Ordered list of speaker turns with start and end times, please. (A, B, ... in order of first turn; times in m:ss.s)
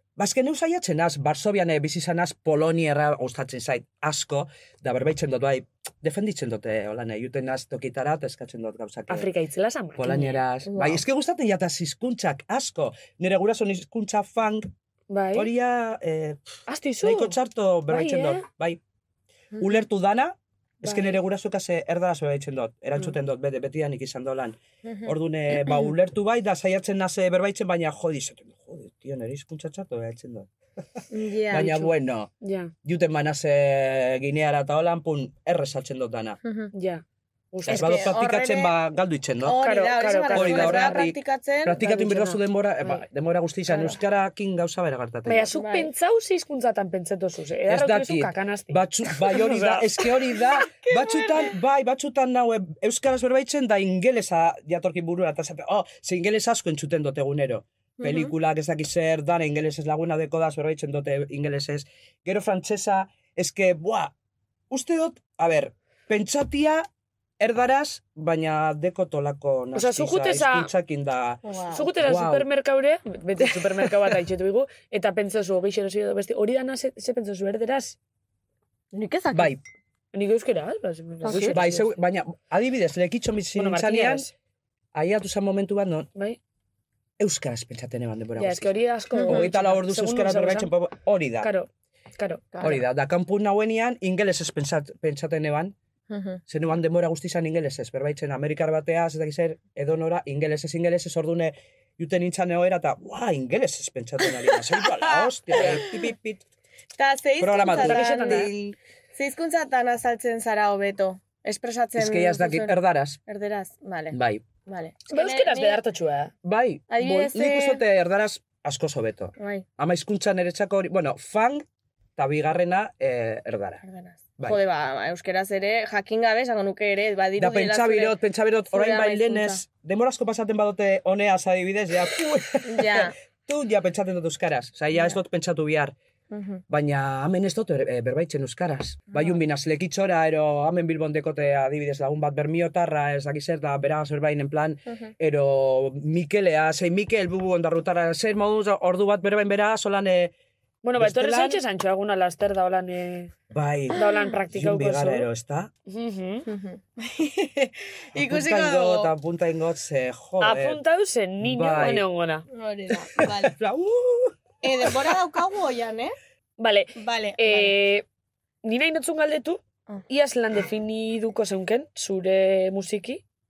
0:00.2-0:09.3 A
0:09.1-0:10.4 B
0:10.0-0:14.7 A
0:10.7-0:11.0 C
0:15.1-0:15.5 B
0:15.3-0:16.4 A
0:16.7-0:17.4 B
0:17.0-0:18.8 A
0:17.9-0:18.4 B
0:19.6-0:19.8 C
0:19.6-0:32.3 A
0:20.8-0:21.2 B
0:24.8-0:25.1 C
0:31.1-0:31.9 C
0:32.4-0:32.7 B
0:32.8-0:36.4 A
0:36.4-0:36.7 C
0:36.7-0:38.1 B
0:37.6-0:39.6 A
0:37.7-0:38.7 C
0:39.4-0:41.8 C
0:39.6-0:41.1 B
0:40.3-0:45.5 A
0:41.8-0:43.0 B
0:45.2-0:49.8 B
0:45.6-0:45.9 C
0:47.7-1:04.1 A
0:50.6-0:51.5 C
0:58.0-0:58.3 C
1:04.7-1:06.9 A
1:07.4-1:12.5 A
1:09.7-1:10.7 B
1:11.4-1:11.8 C
1:11.7-1:18.0 B
1:18.9-1:19.6 C
1:19.3-1:19.6 A
1:20.1-1:21.9 B
1:21.2-1:21.6 C
1:21.4-1:24.3 A
1:23.6-1:24.3 B
1:24.9-1:26.1 A
1:27.2-1:31.5 A
1:28.4-1:30.7 B
1:29.2-1:29.4 C
1:31.4-1:32.6 B
1:32.5-1:32.8 C
1:32.6-1:35.7 A
1:36.1-1:36.4 C
1:36.5-1:46.4 A
1:45.0-1:46.0 C
1:47.0-1:48.5 C
1:47.4-1:48.8 A
1:47.7-1:48.5 B
1:49.2-1:55.8 C
1:52.0-1:53.2 A
1:54.1-1:54.4 A
1:55.1-1:56.3 B
1:56.4-2:01.6 A
1:56.9-1:57.8 C
1:59.4-1:59.6 C
2:02.2-2:03.8 A
2:03.8-2:08.2 C
2:07.4-2:15.9 A
2:08.7-2:09.6 C
2:12.6-2:13.1 C
2:16.3-2:16.6 C
2:16.7-2:30.4 A
2:19.1-2:19.4 C
2:30.8-2:33.3 B
2:31.0-2:31.6 A
2:33.5-2:34.0 A
2:33.9-2:35.3 B
2:33.9-2:34.3 C
2:34.5-2:35.7 A
2:35.9-2:36.5 B
2:36.5-2:39.1 C
2:38.1-2:40.8 A
2:40.4-2:42.4 B
2:41.4-2:42.1 A
2:42.5-2:43.5 C
2:43.0-2:45.2 A
2:44.6-2:46.1 C
2:46.6-2:48.1 B
2:47.0-2:47.8 C
2:48.6-2:53.2 B